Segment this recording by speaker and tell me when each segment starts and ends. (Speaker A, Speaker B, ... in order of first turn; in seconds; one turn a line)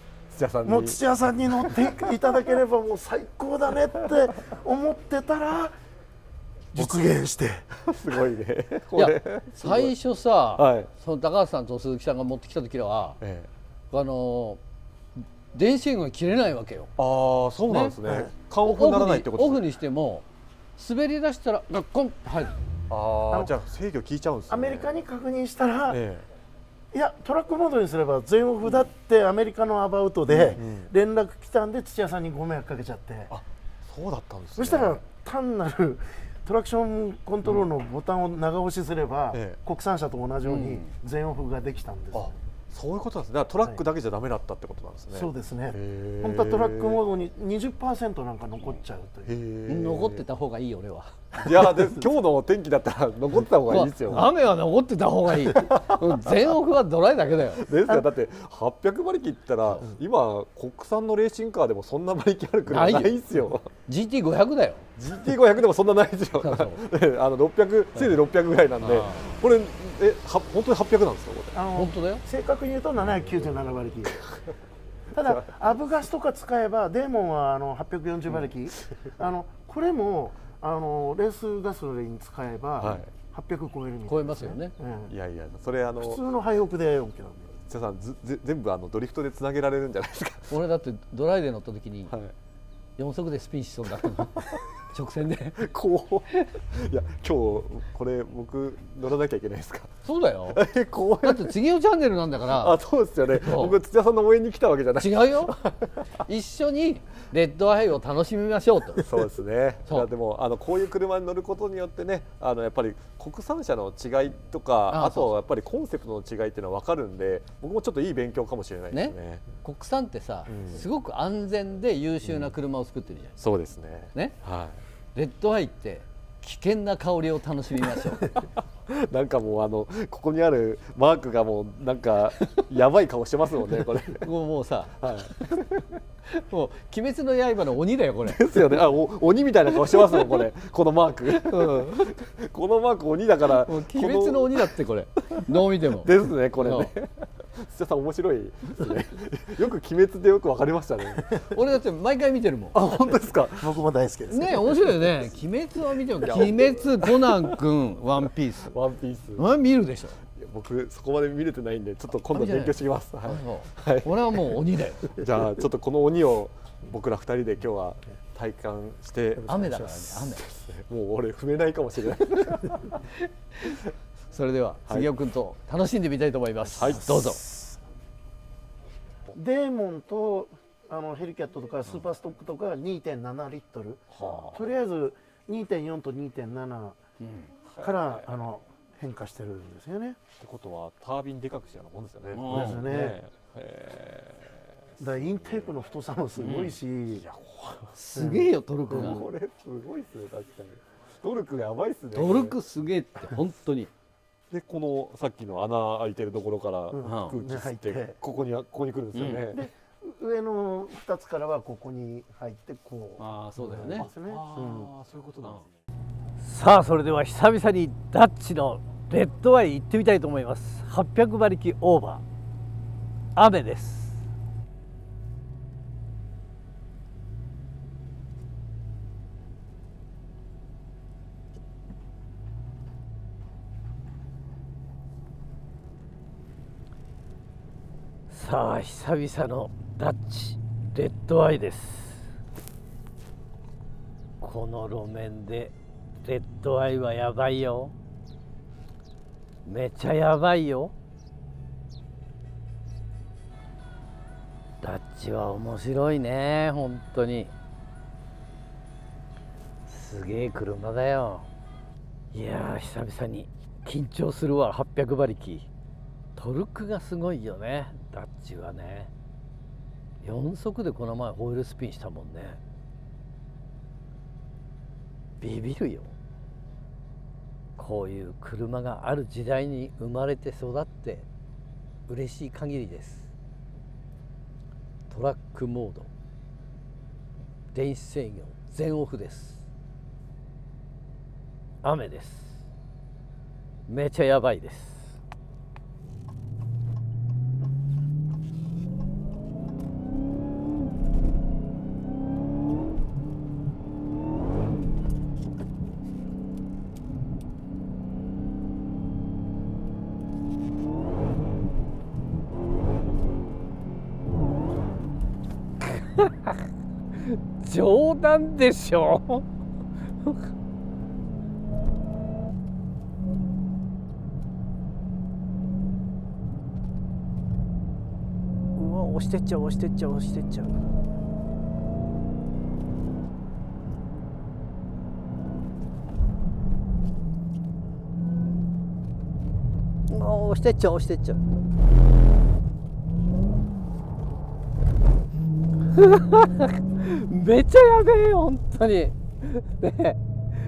Speaker A: 0.3-2.2
Speaker B: 0.6-5.7
Speaker B: 6.7-7.7
Speaker A: 6.8-7.1
Speaker A: 7.8-9.9
Speaker C: 8.9-13.2
Speaker A: 10.6-10.9
Speaker A: 13.2-13.5
Speaker C: 13.9-14.6
Speaker C: 15.5-16.9
Speaker A: 17.0-19.6
Speaker C: 17.7-18.0
Speaker B: 18.0-18.3
Speaker C: 18.6-20.2
Speaker C: 20.8-22.6
Speaker A: 22.9-24.9
Speaker B: 24.5-26.0
Speaker A: 25.9-26.2
Speaker B: 26.9-33.3
Speaker A: 30.3-30.9
Speaker A: 33.3-35.0
Speaker B: 34.5-42.4
Speaker A: 39.3-39.6
Speaker C: 40.4-40.9
Speaker A: 42.1-47.0
Speaker B: 45.1-49.4
Speaker A: 49.2-50.2
Speaker C: 49.7-51.3
Speaker A: 51.4-54.3
Speaker B: 51.4-52.1
Speaker C: 53.6-57.6
Speaker A: 55.5-56.5
Speaker A: 57.5-63.7
Speaker C: 62.6-63.1
Speaker C: 63.9-64.8
Speaker A: 65.0-71.6
Speaker C: 66.4-66.8
Speaker C: 68.8-69.4
Speaker B: 71.5-74.2
Speaker C: 71.7-72.2
Speaker A: 74.0-74.4
Speaker B: 75.1-85.1
Speaker A: 82.8-83.1
Speaker C: 84.1-84.7
Speaker A: 85.1-86.2
Speaker B: 86.0-87.6
Speaker A: 87.7-90.5
Speaker C: 90.5-92.1
Speaker C: 93.0-95.6
Speaker A: 94.0-94.4
Speaker A: 95.6-99.9
Speaker C: 100.0-100.6
Speaker A: 100.5-101.5
Speaker C: 101.2-102.8
Speaker A: 102.4-105.8
Speaker C: 103.3-103.8
Speaker C: 105.0-105.5
Speaker C: 106.2-109.0
Speaker A: 109.0-119.5
Speaker C: 114.9-115.3
Speaker C: 118.9-123.3
Speaker A: 120.5-120.8
Speaker A: 123.4-124.8
Speaker C: 125.1-128.4
Speaker A: 128.8-134.3
Speaker C: 133.8-135.5
Speaker A: 135.0-135.9
Speaker C: 136.3-138.8
Speaker A: 138.2-144.7
Speaker C: 139.9-140.4
Speaker C: 141.4-142.1
Speaker C: 143.5-146.9
Speaker A: 145.3-151.3
Speaker C: 151.5-152.8
Speaker A: 152.7-153.8
Speaker B: 153.5-155.2
Speaker C: 154.3-158.8
Speaker A: 156.2-157.6
Speaker A: 158.6-159.5
Speaker C: 159.3-160.2
Speaker A: 160.4-173.0
Speaker C: 162.2-165.1
Speaker C: 169.5-170.4
Speaker B: 169.5-170.0
Speaker C: 174.3-177.4
Speaker A: 176.7-177.4
Speaker B: 176.8-177.8
Speaker B: 179.3-187.0
Speaker A: 184.1-184.7
Speaker C: 187.2-187.5
Speaker A: 187.7-188.4
Speaker B: 187.8-190.2
Speaker A: 190.4-194.5
Speaker C: 192.3-192.8
Speaker B: 192.4-193.2
Speaker B: 195.0-197.2
Speaker A: 195.0-195.7
Speaker C: 196.4-196.8
Speaker A: 197.1-198.0
Speaker C: 197.9-199.2
Speaker B: 198.1-198.5
Speaker A: 198.9-202.6
Speaker C: 202.1-203.9
Speaker A: 204.5-209.7
Speaker B: 206.9-208.2
Speaker C: 207.0-207.4
Speaker C: 209.1-209.5
Speaker B: 209.5-214.9
Speaker C: 213.2-214.1
Speaker A: 213.8-215.7
Speaker C: 216.4-222.2
Speaker C: 223.3-224.2
Speaker C: 238.3-242.3
Speaker C: 244.4-247.9
Speaker C: 249.6-250.9
Speaker C: 254.8-257.5
Speaker C: 259.9-261.5
Speaker C: 262.3-265.7
Speaker C: 266.4-269.1
Speaker C: 270.2-272.6
Speaker C: 275.4-276.1
Speaker C: 277.8-281.3
Speaker C: 282.1-283.3
Speaker C: 285.1-286.1
Speaker C: 287.7-289.7
Speaker C: 291.8-292.6
Speaker C: 293.9-295.2
Speaker C: 315.8-316.6
Speaker C: 317.3-319.4
Speaker C: 328.8-330.8
Speaker C: 340.1-341.4
Speaker C: 345.9-350.2